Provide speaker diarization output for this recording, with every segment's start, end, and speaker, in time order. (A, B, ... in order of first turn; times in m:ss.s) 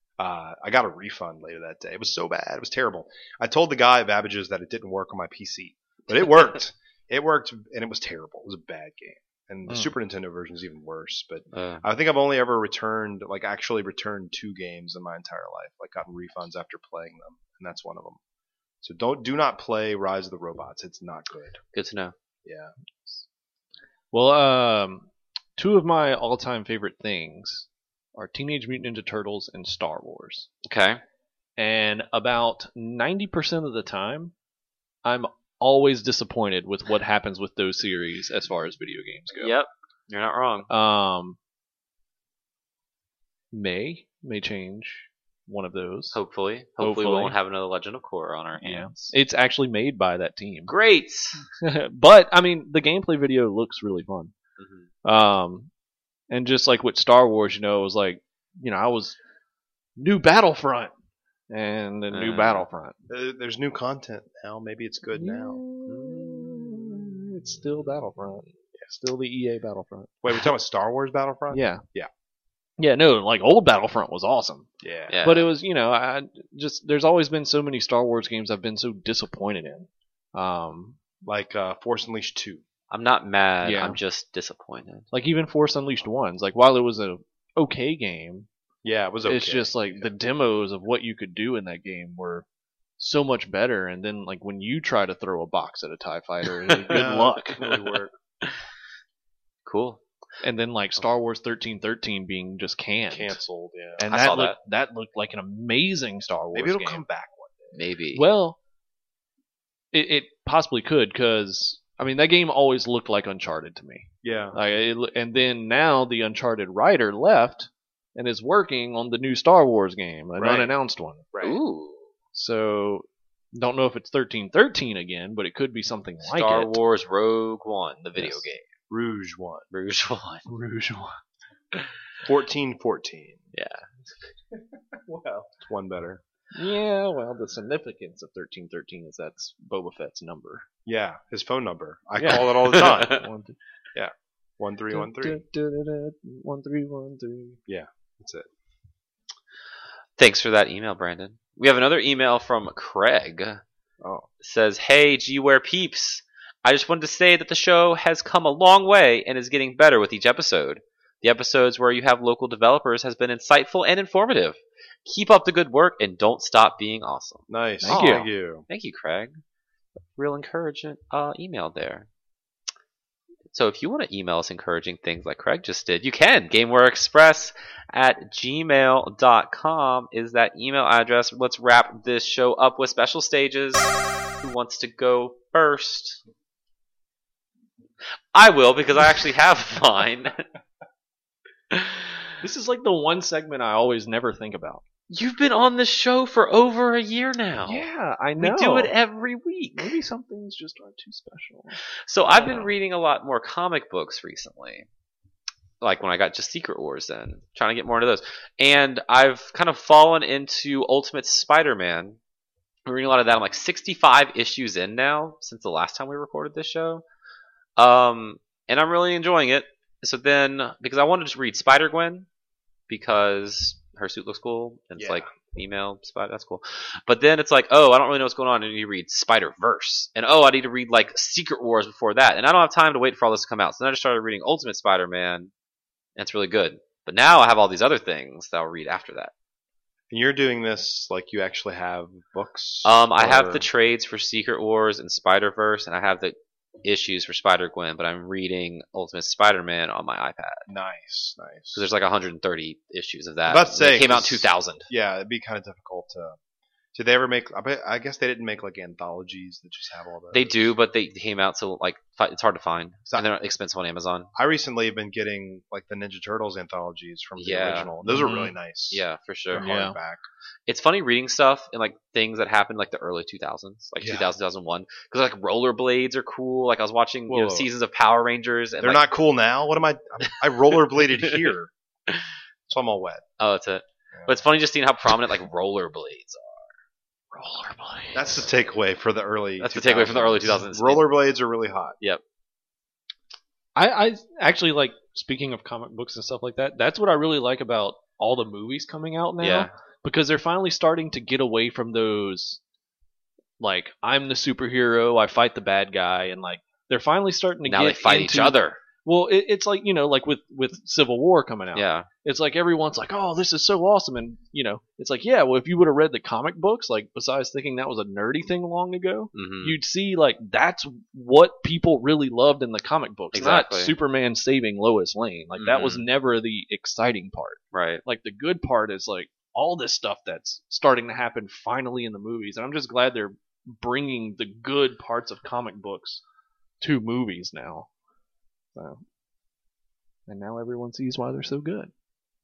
0:00.2-0:18.2 A
0:11.5-0:11.8 B
0:18.8-0:21.6 A
0:21.7-0:22.1 B
0:22.4-0:22.7 A
0:24.1-0:25.0 C
0:25.6-0:30.5 C
0:30.6-0:31.0 B
0:31.6-0:34.3 C
0:35.0-0:39.5 C
0:39.4-0:40.7 B
0:40.7-0:41.4 C
0:43.5-0:46.2 C
0:46.1-0:49.1 B
0:46.8-0:47.4 C
0:48.6-0:50.7 C
0:50.7-0:51.4 B
0:51.6-0:54.3 C
0:54.6-0:54.9 B
0:55.0-0:55.7 C
0:56.3-0:59.2 C
1:00.0-1:00.9 C
1:01.5-1:02.9 C
1:02.1-1:02.7 B
1:03.1-1:05.6 A
1:05.1-1:10.4 C
1:05.9-1:06.5 B
1:10.2-1:12.1 A
1:11.5-1:11.8 C
1:12.8-1:14.7 C
1:14.8-1:15.2 A
1:15.1-1:15.5 B
1:15.2-1:21.0 C
1:21.2-1:22.6 A
1:22.9-1:25.0 B
1:23.6-1:24.0 C
1:25.1-1:28.5 C
1:28.8-1:30.1 A
1:29.2-1:32.4 C
1:33.0-1:37.6 C
1:36.6-1:37.0 B
1:36.9-1:38.1 A
1:39.6-1:40.0 B
1:40.4-1:43.4 C
1:43.1-1:44.1 A
1:44.0-1:47.0 C
1:44.1-1:44.6 B
1:46.5-1:47.8 A
1:47.7-1:48.2 B
1:48.1-1:48.6 C
1:49.9-2:01.3 C
1:54.2-1:54.6 A
2:00.4-2:00.7 A
2:01.3-2:01.6 A
2:01.4-2:02.1 B
2:02.3-2:06.8 C
2:06.2-2:08.7 B
2:08.2-2:08.4 C
2:08.9-2:09.7 A
2:09.7-2:10.4 B
2:10.5-2:11.1 C
2:12.2-2:13.4 A
2:13.5-2:13.9 B
2:15.2-2:16.2 A
2:16.5-2:20.6 C
2:20.8-2:23.2 A
2:22.2-2:23.6 C
2:22.7-2:23.2 B
2:23.9-2:25.4 A
2:24.9-2:27.6 C
2:27.7-2:28.5 A
2:30.2-2:33.6 B
2:34.0-2:34.3 A
2:34.4-2:49.4 B
2:47.5-2:48.6 A
2:47.8-2:48.2 C
2:50.1-2:52.1 B
2:53.5-3:06.2 B
3:08.3-3:10.4 B
3:11.7-3:12.3 B
3:12.4-3:14.8 C
3:15.1-3:17.8 B
3:17.6-3:18.9 C
3:18.4-3:20.0 B
3:19.8-3:22.7 C
3:21.9-3:24.9 B
3:25.8-3:32.2 B
3:32.8-3:37.0 B
3:37.8-3:42.3 B
3:42.9-3:55.5 B
3:45.0-3:45.3 A
3:56.2-3:59.3 B
4:00.1-4:03.6 A
4:02.8-4:10.7 B
4:10.7-4:11.8 A
4:11.7-4:14.9 B
4:13.5-4:16.4 A
4:16.9-4:20.7 A
4:20.3-4:24.3 B
4:24.3-4:30.2 A
4:27.4-4:27.9 B
4:28.0-4:28.5 C
4:28.9-4:29.7 B
4:29.6-4:30.0 C
4:30.7-4:39.0 B
4:34.0-4:34.3 A
4:37.3-4:37.7 A
4:38.8-4:41.7 A
4:41.2-4:41.5 B
4:42.7-4:43.2 A
4:43.4-4:46.7 B
4:47.3-4:48.4 C
4:48.1-4:52.0 A
4:49.6-4:51.1 B
4:53.8-5:02.6 C
4:59.4-4:59.7 B
5:03.6-5:36.2 C
5:07.6-5:08.8 B
5:11.7-5:12.1 B
5:19.3-5:19.8 B
5:23.3-5:23.9 B
5:25.5-5:26.1 B
5:27.7-5:28.0 B
5:36.8-5:37.9 C
5:38.8-5:39.0 C
5:40.3-5:41.9 C